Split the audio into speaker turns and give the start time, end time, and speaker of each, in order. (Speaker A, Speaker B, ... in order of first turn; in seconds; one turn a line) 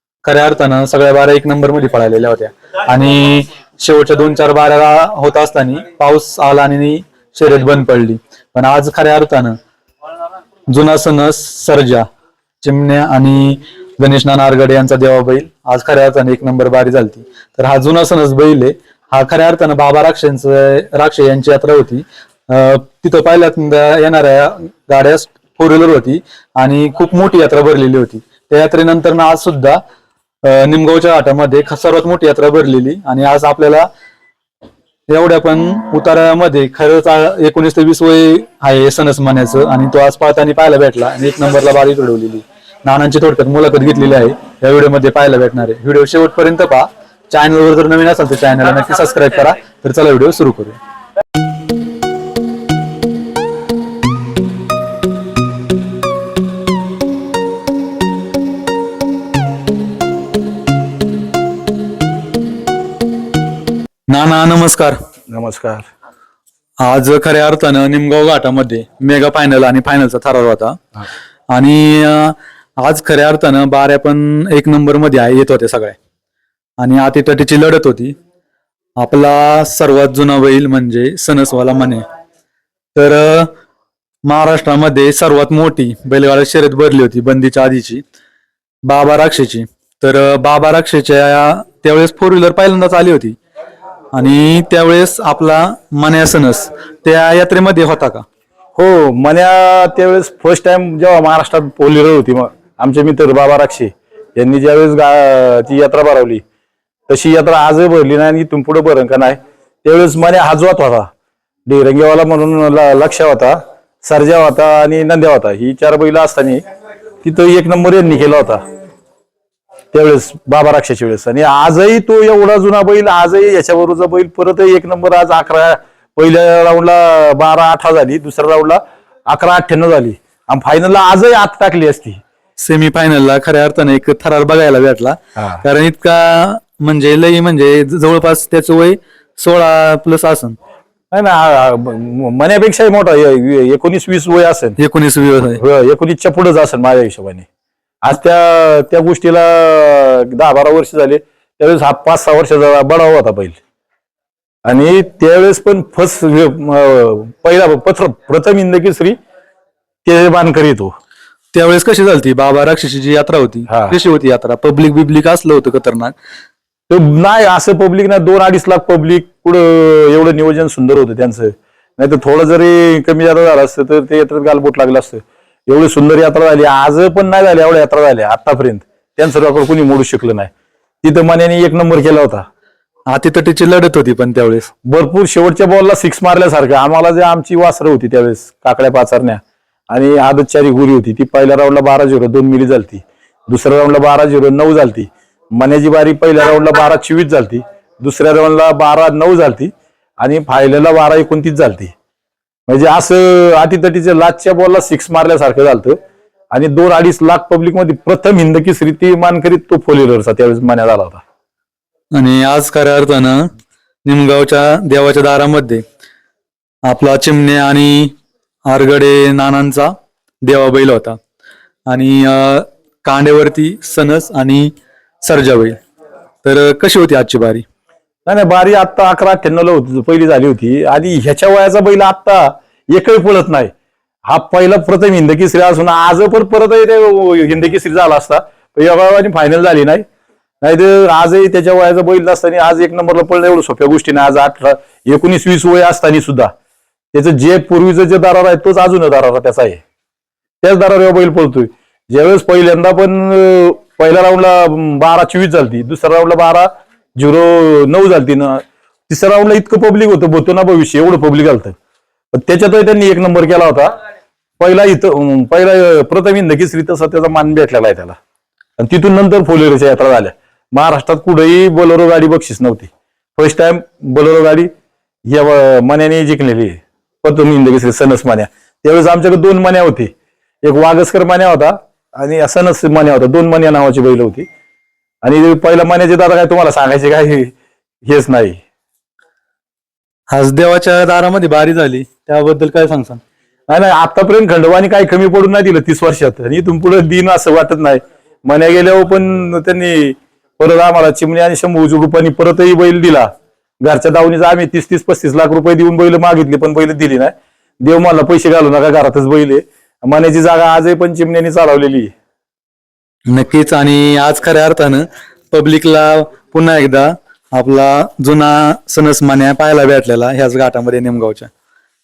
Speaker A: 0.2-9.6
Speaker A: 10.7-12.1
Speaker A: 12.6-29.8
Speaker A: 30.4-33.9
Speaker A: 35.1-50.8
Speaker A: 64.1-65.0
Speaker B: 65.3-65.9
Speaker A: 66.8-70.8
Speaker A: 71.5-76.0
Speaker A: 76.8-78.2
Speaker A: 79.0-82.0
Speaker A: 83.0-83.5
Speaker A: 84.3-88.0
Speaker A: 88.9-93.4
Speaker A: 94.1-98.2
Speaker B: 98.8-106.4
Speaker B: 107.1-111.1
Speaker B: 111.7-116.6
Speaker B: 117.2-118.6
Speaker B: 119.9-132.2
Speaker A: 132.6-140.6
Speaker B: 135.4-135.6
Speaker B: 141.1-144.8
Speaker A: 144.8-145.6
Speaker B: 145.6-147.5
Speaker B: 148.0-153.6
Speaker B: 154.7-159.2
Speaker B: 160.1-160.9
Speaker A: 161.6-166.2
Speaker B: 163.7-164.0
Speaker B: 166.9-180.5
Speaker B: 181.0-182.4
Speaker A: 183.1-184.7
Speaker B: 184.9-201.9
Speaker B: 202.7-206.0
Speaker B: 206.5-211.2
Speaker A: 212.1-213.5
Speaker A: 214.1-215.8
Speaker A: 216.8-218.2
Speaker A: 218.7-219.9
Speaker A: 220.4-221.2
Speaker A: 221.9-225.8
Speaker A: 226.4-227.7
Speaker B: 228.3-233.7
Speaker B: 234.3-240.1
Speaker B: 240.6-246.5
Speaker B: 247.1-249.8
Speaker B: 250.6-261.8
Speaker B: 262.3-263.9
Speaker B: 264.6-268.2
Speaker B: 268.8-274.7
Speaker B: 275.3-280.1
Speaker B: 280.6-284.5
Speaker B: 285.2-287.5
Speaker B: 288.1-288.6
Speaker A: 290.3-293.2
Speaker B: 293.7-303.3
Speaker B: 303.8-312.1
Speaker A: 313.3-321.5